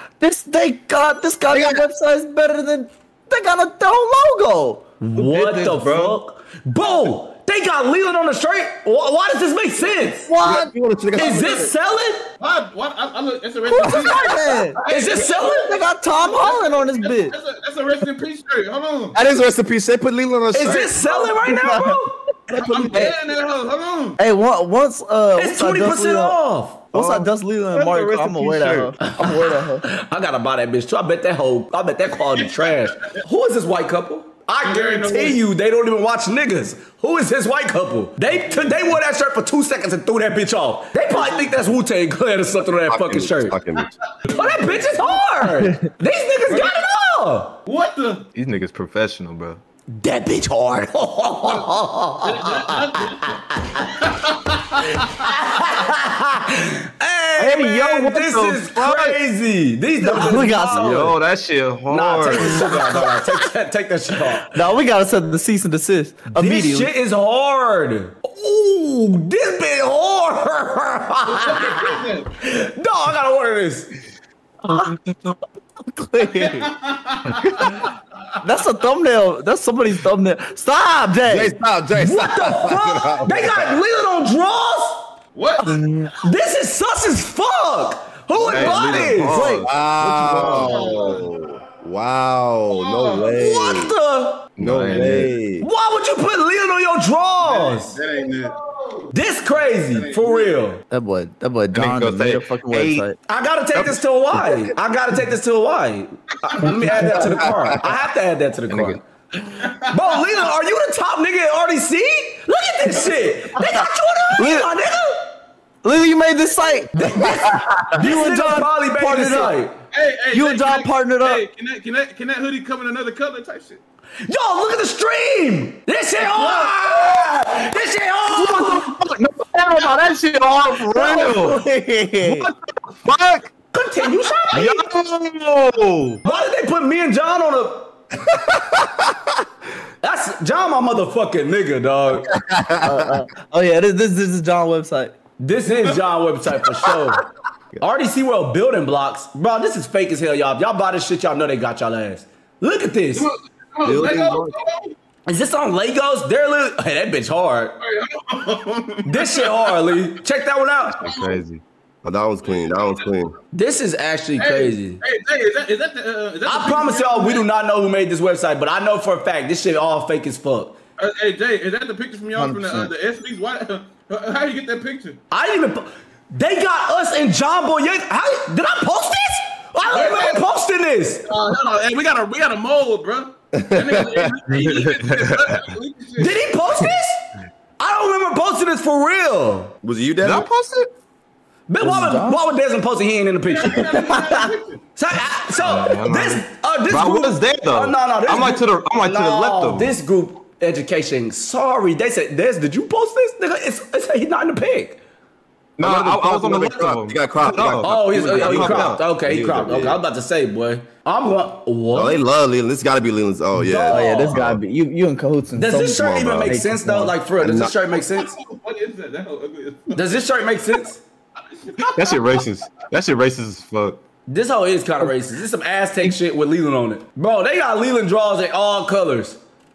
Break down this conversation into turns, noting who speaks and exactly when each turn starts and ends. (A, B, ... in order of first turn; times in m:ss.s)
0:00.2-0:04.8 A
0:01.5-0:01.8 B
0:05.0-0:10.3 C
0:05.5-0:06.2 D
0:10.2-0:10.7 A
0:10.4-0:11.7 B
0:11.1-0:12.3 C
0:12.4-0:15.6 E
0:13.7-0:14.8 A
0:13.8-0:15.7 C
0:15.4-0:17.3 A
0:16.1-0:19.1 E
0:19.1-0:21.0 B
0:20.5-0:22.1 C
0:20.6-0:23.2 A
0:22.6-0:24.2 E
0:24.2-0:26.4 A
0:25.3-0:26.8 C
0:26.9-0:29.8 A
0:26.9-0:29.0 D
0:29.2-0:43.6 C
0:32.3-0:32.9 E
0:34.6-0:35.4 E
0:42.9-0:43.9 B
0:44.2-0:45.0 E
0:44.3-0:47.5 C
0:46.5-0:46.7 E
0:47.6-0:48.2 E
0:48.3-0:49.6 D
0:49.9-0:52.2 C
0:52.2-0:53.4 E
0:54.0-0:54.6 E
0:55.0-1:01.2 C
0:57.4-0:59.2 D
1:00.0-1:01.2 A
1:00.1-1:03.0 D
1:01.9-1:04.5 C
1:02.3-1:03.2 A
1:04.5-1:06.9 A
1:06.3-1:13.9 C
1:11.3-1:12.3 E
1:14.6-1:15.4 A
1:15.9-1:16.7 A
1:16.9-1:17.2 E
1:18.4-1:21.6 A
1:21.3-1:23.7 B
1:21.9-1:25.1 C
1:25.3-1:25.6 E
1:25.6-1:26.1 A
1:26.2-1:29.6 C
1:28.4-1:31.2 D
1:28.6-1:29.2 E
1:29.3-1:29.7 A
1:29.6-1:33.9 B
1:30.4-1:31.2 E
1:32.7-1:33.4 E
1:33.3-1:34.5 C
1:34.6-1:35.4 D
1:34.6-1:35.7 B
1:35.6-1:37.9 C
1:37.7-1:38.5 D
1:39.1-1:40.8 C
1:39.8-1:40.6 D
1:40.9-1:43.2 A
1:41.7-1:43.0 D
1:43.3-1:49.0 C
1:46.8-1:47.8 B
1:48.7-1:49.0 D
1:49.7-1:55.3 C
1:53.6-1:54.7 A
1:55.8-1:59.6 A
1:57.0-1:59.7 C
1:59.9-2:03.8 E
2:00.3-2:01.4 A
2:04.3-2:08.9 C
2:06.4-2:06.8 E
2:08.4-2:11.6 E
2:09.7-2:10.2 A
2:10.8-2:12.5 D
2:10.9-2:11.5 A
2:13.0-2:13.4 D
2:13.7-2:14.8 C
2:14.5-2:16.2 D
2:16.2-2:17.9 C
2:20.0-2:22.3 C
2:22.3-2:23.2 B
2:22.8-2:25.1 A
2:25.4-2:27.2 C
2:27.8-2:33.3 C
2:33.2-2:34.9 E
2:33.8-2:34.6 B
2:35.3-2:37.8 C
2:37.8-2:39.5 E
2:39.0-2:41.0 C
2:41.0-2:41.6 D
2:42.0-2:43.4 B
2:43.5-2:45.0 C
2:44.4-2:47.4 E
2:46.4-2:50.8 C
2:51.0-2:55.2 E
2:52.4-2:52.9 A
2:55.3-3:01.2 C
2:59.9-3:00.4 E
3:01.3-3:06.5 E
3:03.5-3:05.5 B
3:06.2-3:07.2 C
3:07.8-3:09.7 C
3:09.8-3:10.5 B
3:10.2-3:10.9 D
3:11.7-3:14.2 C
3:11.8-3:12.4 A
3:13.5-3:14.8 E
3:15.0-3:25.0 C
3:15.6-3:19.9 D
3:25.8-3:29.0 D
3:25.8-3:30.0 B
3:27.7-3:32.2 C
3:31.9-3:34.6 B
3:33.7-3:34.3 C
3:33.7-3:37.1 A
3:35.6-3:38.3 C
3:35.7-3:36.6 B
3:37.4-3:37.7 B
3:38.2-3:40.0 E
3:39.9-3:41.0 C
3:41.6-3:42.3 E
3:41.9-3:44.0 D
3:44.3-3:49.4 C